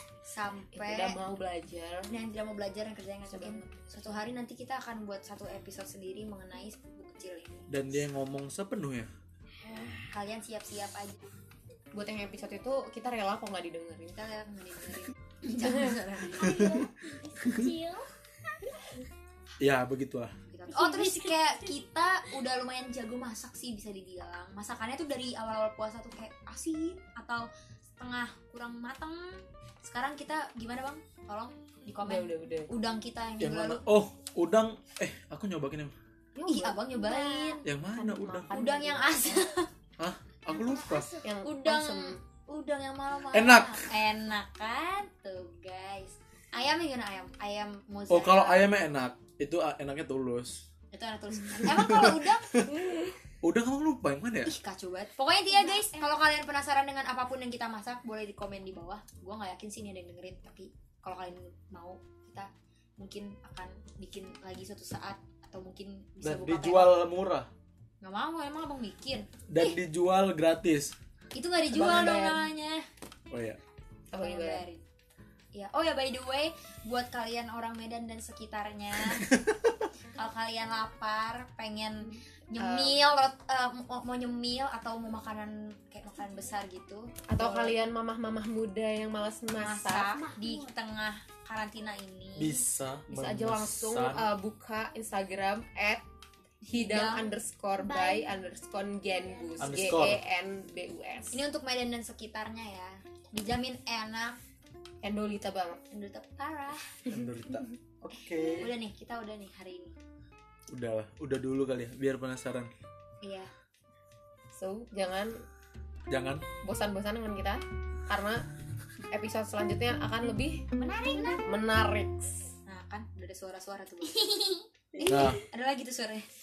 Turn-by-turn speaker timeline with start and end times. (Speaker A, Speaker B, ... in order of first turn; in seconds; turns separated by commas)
Speaker A: 0.3-1.1, Speaker B: 0.7-2.1, Speaker A: 2.1-7.7, Speaker B: 3.3-4.1, Speaker C: 7.7-9.1, Speaker A: 9.6-11.2, Speaker B: 11.9-14.2, Speaker A: 14.1-16.7, Speaker D: 16.3-18.1, Speaker C: 19.6-20.3, Speaker A: 20.5-27.5, Speaker A: 28.0-33.8, Speaker B: 32.0-32.7, Speaker C: 33.4-35.9, Speaker B: 36.3-39.4, Speaker A: 36.5-37.6, Speaker C: 37.6-38.5, Speaker A: 38.5-39.7, Speaker C: 40.0-41.1, Speaker D: 40.6-41.0, Speaker A: 40.9-48.7, Speaker B: 41.2-42.2, Speaker C: 43.3-43.8, Speaker C: 48.1-50.7, Speaker A: 50.9-52.6, Speaker C: 51.7-52.7, Speaker C: 53.4-54.5, Speaker A: 54.5-67.0, Speaker C: 66.2-67.5, Speaker A: 68.0-69.8, Speaker C: 69.5-70.9, Speaker A: 71.3-72.8, Speaker B: 71.7-72.4, Speaker C: 73.3-73.6, Speaker B: 74.1-74.6, Speaker A: 74.1-74.8, Speaker A: 75.5-79.3, Speaker C: 79.1-79.7, Speaker A: 80.2-87.8, Speaker B: 82.6-83.0, Speaker B: 87.3-90.2, Speaker A: 89.6-92.6, Speaker C: 92.3-94.3, Speaker B: 93.1-96.0, Speaker A: 96.6-97.3, Speaker B: 96.7-101.4, Speaker D: 99.4-99.7, Speaker C: 99.6-100.2, Speaker A: 101.3-104.4, Speaker B: 105.0-105.8, Speaker A: 105.9-106.8, Speaker C: 107.1-108.7, Speaker A: 108.4-109.9, Speaker C: 110.7-112.7, Speaker A: 113.2-113.5, Speaker B: 114.5-115.4, Speaker C: 116.1-116.4, Speaker B: 116.6-118.4, Speaker B: 119.1-120.6, Speaker A: 120.8-121.4, Speaker B: 121.4-122.5, Speaker A: 122.7-126.2, Speaker C: 125.1-125.4